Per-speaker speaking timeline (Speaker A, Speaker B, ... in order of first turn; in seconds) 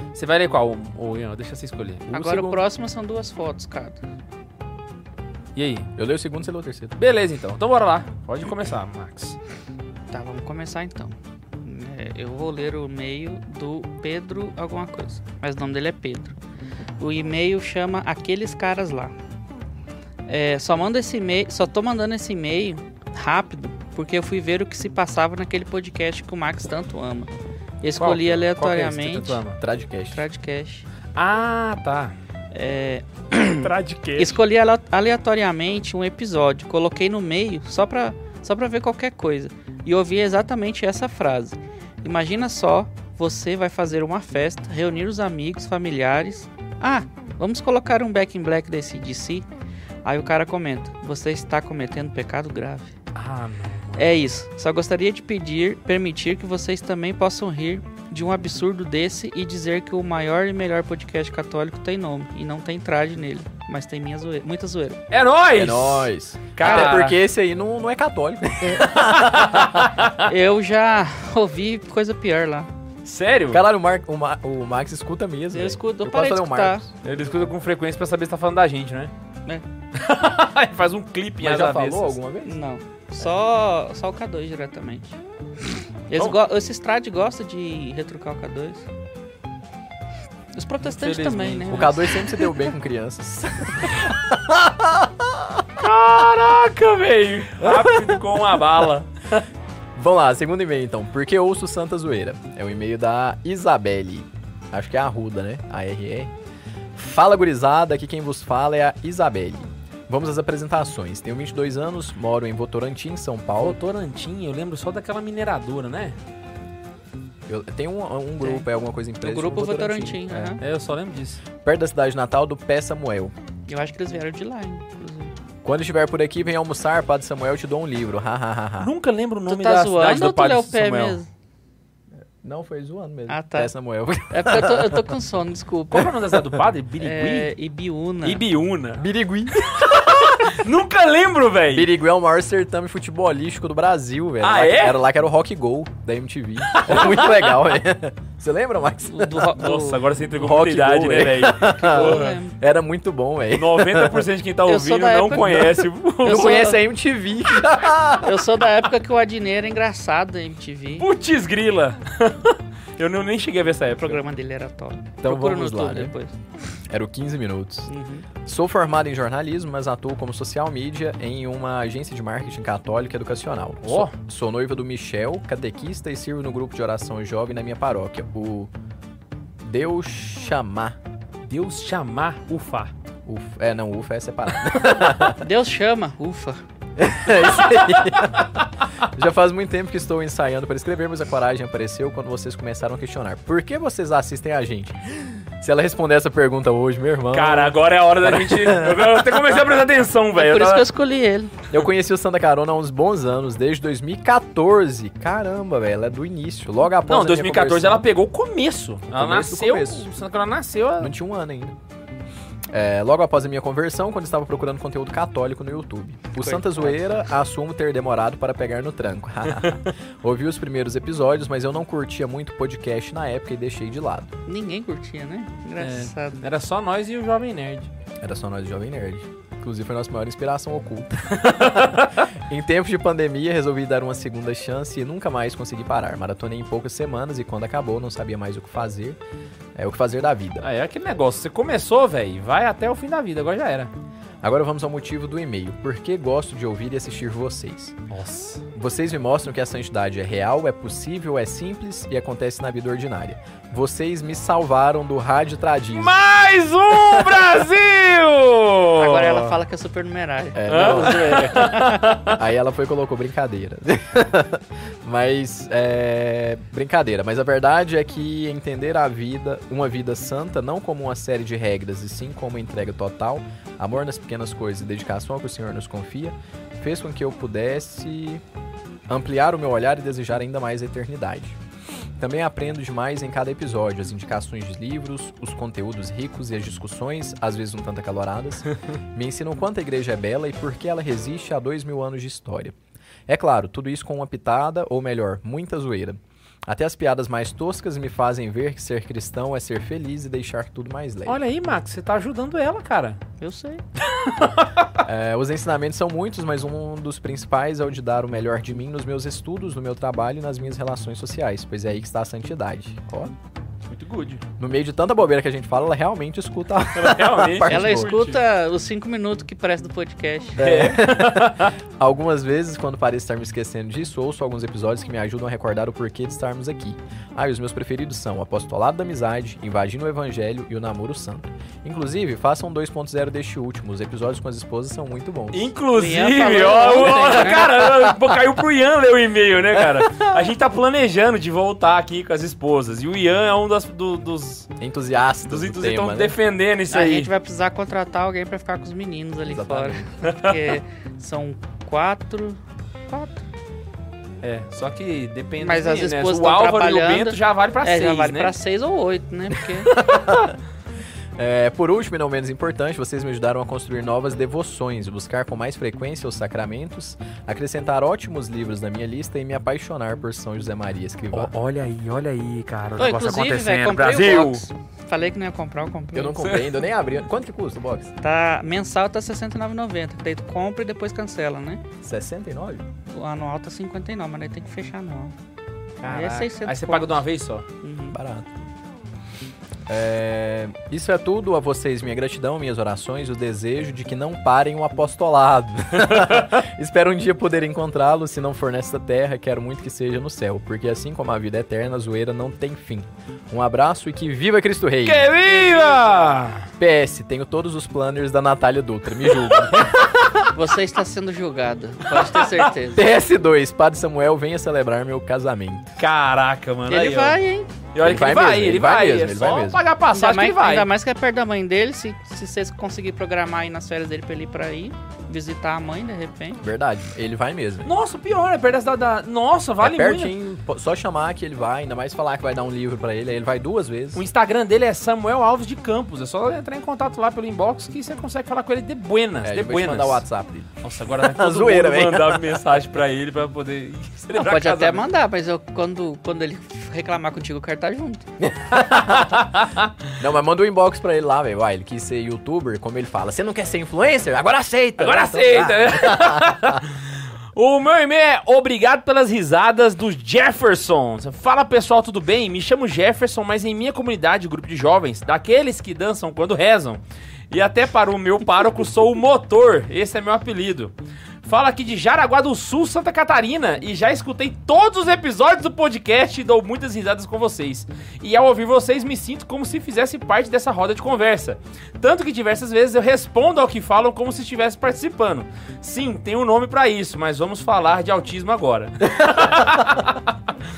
Speaker A: 0.1-2.1, 5.5-5.9, 7.0-9.4, 28.0-29.6, 31.1-32.1, 33.6-34.4, 53.1-54.2, 65.1-67.2, 69.0-70.3, 73.0-73.6, 77.0-79.1, 80.0-82.2, 90.8-91.9, 95.8-99.4, 113.6-116.2, 120.6-121.4, 128.8-131.2, 135.9-137.5, 138.2-141.9, 144.4-145.0, 146.7-147.6, 149.6-152.4, 153.5-156.7, 161.0-164.2, 173.8-174.2, 181.5-182.9, 187.5-188.7, 197.3-200.9, 207.1-211.1, 225.8-227.9, 231.4-232.1, 240.6-243.9, 248.1-248.7, 255.9-259.6, 260.7-262.4, 301.3-303.2, 304.0-304.9, 313.9-314.4, 316.9-318.4, 320.6-321.7, 335.5-344.7, 345.4-347.3, 350.2-350.7, 354.4-358.6, 371.3-374.6, 386.0-387.6, 396.1-396.4, 405.1-406.7, 412.2-412.6, 416.0-417.4, 417.9-420.9, 427.9-430.4, 434.1-440.2, 440.8-445.0, 448.8-449.9, 455.0-470.9, 471.4-490.3
Speaker B: 2.1-2.6, 6.0-7.0, 29.5-30.2, 65.5-69.8, 73.5-77.0, 81.4-82.6, 91.7-95.6, 97.6-98.2, 100.0-106.3, 107.0-113.8, 117.5-120.6, 121.6-123.3, 125.6-128.9, 132.4-135.2, 139.0-140.4, 141.7-149.6, 150.4-154.3, 156.2-158.4, 165.2-166.1, 166.9-167.9, 168.4-178.7, 179.6-181.0, 183.3-185.4, 187.0-188.5, 189.1-195.0, 195.6-199.5, 201.7-208.1, 209.1-210.1, 211.0-211.8, 212.7-224.3, 228.2-231.7, 232.5-239.2, 239.8-240.7, 244.4-248.0, 248.7-256.1, 260.6-278.4, 279.1-281.6, 282.2-292.8, 293.3-301.4, 305.0-313.3, 314.6-318.1, 320.6-335.7, 339.8-340.4, 344.8-346.4, 349.5-350.1, 359.9-360.6, 361.4-371.5, 376.1-378.1, 382.0-382.8, 388.1-388.5, 389.9-405.3, 406.8-410.5, 412.9-416.0, 418.0-419.8, 426.6-427.9, 429.8-434.2, 439.4-442.6, 448.4-449.4, 450.2-456.8
Speaker C: 2.1-4.0, 10.1-16.4, 17.0-19.1, 20.3-27.3, 27.8-29.4, 30.1-30.9, 32.5-49.5, 50.0-52.9, 54.0-65.0, 66.6-67.0, 70.2-72.7, 75.5-76.8, 82.5-85.2, 86.1-88.9, 90.5-92.5, 118.4-118.7, 119.2-120.6, 123.7-125.3, 129.5-131.3, 133.3-133.7, 134.3-136.1, 137.0-138.4, 149.1-150.0, 151.7-152.6, 154.7-156.8, 158.2-161.1, 164.0-166.3, 167.9-168.3, 185.4-186.6, 200.4-201.5, 216.3-217.0, 224.5-226.4, 259.0-262.1, 303.4-303.8, 317.6-320.6, 335.9-337.9, 346.9-353.4, 355.6-359.9, 373.0-376.6, 378.2-381.8, 383.1-385.3, 386.1-387.2, 387.8-388.2, 405.4-406.2, 410.5-413.1, 416.9-417.7, 420.1-426.6, 444.4-448.3